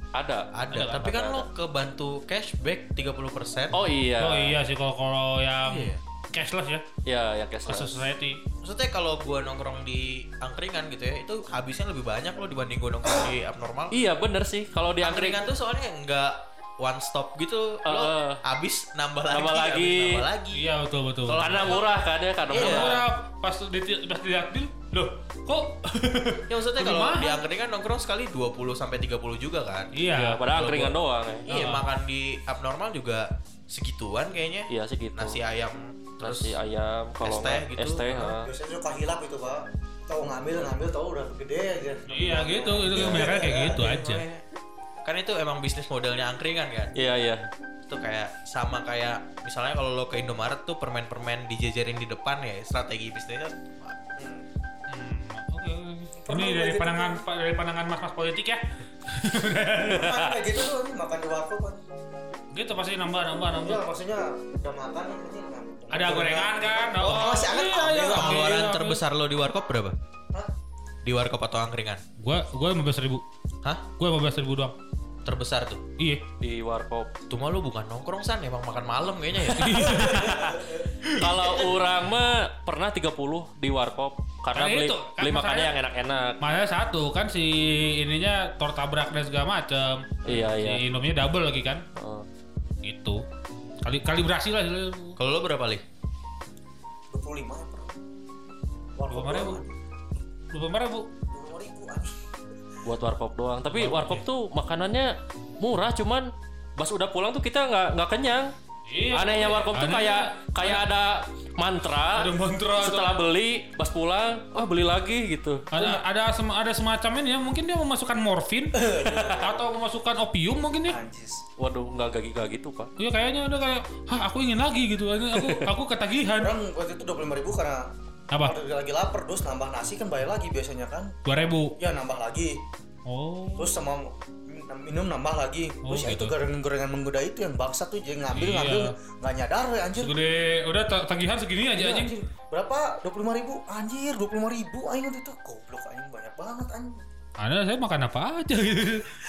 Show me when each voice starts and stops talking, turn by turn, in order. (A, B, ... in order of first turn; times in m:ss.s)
0:00.1-0:01.4 A
0:00.5-0:03.8 B
0:00.7-0:01.1 C
0:03.7-0:04.6 A
0:04.2-0:06.8 C
0:05.6-0:06.0 B
0:07.0-0:08.0 A
0:07.6-0:08.4 C
0:08.6-0:13.9 B
0:13.9-0:15.4 A
0:15.0-0:20.7 B
0:17.8-0:18.4 A
0:19.3-0:20.2 A
0:20.5-0:21.8 C
0:21.3-0:21.9 B
0:21.4-0:22.9 A
0:22.5-0:27.4 C
0:22.5-0:23.1 B
0:26.5-0:29.9 B
0:29.9-0:30.4 C
0:30.1-0:31.5 A
0:30.5-0:36.6 B
0:31.5-0:31.9 C
0:34.7-0:35.4 A
0:36.2-0:38.5 A
0:37.2-0:38.2 B
0:38.1-0:43.8 D
0:42.1-0:44.2 C
0:43.0-0:44.4 B
0:45.0-0:47.0 B
0:46.9-0:47.4 A
0:47.9-0:54.0 B
0:54.2-0:54.4 D
0:54.9-1:00.2 C
0:56.2-0:57.2 D
0:59.8-1:01.9 D
1:02.5-1:03.8 C
1:03.6-1:08.5 D
1:05.9-1:09.0 C
1:08.1-1:10.0 B
1:11.0-1:12.0 B
1:12.2-1:13.2 C
1:14.0-1:14.7 C
1:15.2-1:15.8 B
1:16.0-1:16.2 C
1:16.4-1:17.1 A
1:17.3-1:20.0 B
1:19.5-1:20.5 C
1:20.0-1:26.4 A
1:21.0-1:21.7 C
1:24.5-1:25.8 C
1:26.4-1:31.8 C
1:30.3-1:30.8 A
1:32.0-1:32.3 A
1:32.8-1:33.2 C
1:33.8-1:35.2 C
1:35.2-1:35.8 B
1:37.1-1:37.9 D
1:39.0-1:39.7 D
1:39.1-1:39.6 C
1:40.5-1:41.1 C
1:41.3-1:42.1 D
1:42.8-1:48.5 A
1:43.7-1:44.2 C
1:48.9-1:50.8 C
1:49.1-1:55.7 A
1:52.1-1:53.2 C
1:55.7-2:01.0 C
1:55.7-1:56.0 D
1:58.7-1:59.7 D
2:00.9-2:01.4 D
2:01.6-2:02.9 A
2:03.0-2:06.5 C
2:05.4-2:05.6 D
2:06.4-2:07.8 D
2:08.4-2:11.1 D
2:11.3-2:11.7 C
2:11.8-2:12.6 D
2:13.1-2:13.8 C
2:13.6-2:20.1 D
2:15.8-2:16.3 C
2:18.3-2:18.9 C
2:20.0-2:22.1 C
2:21.8-2:27.0 D
2:27.4-2:29.1 C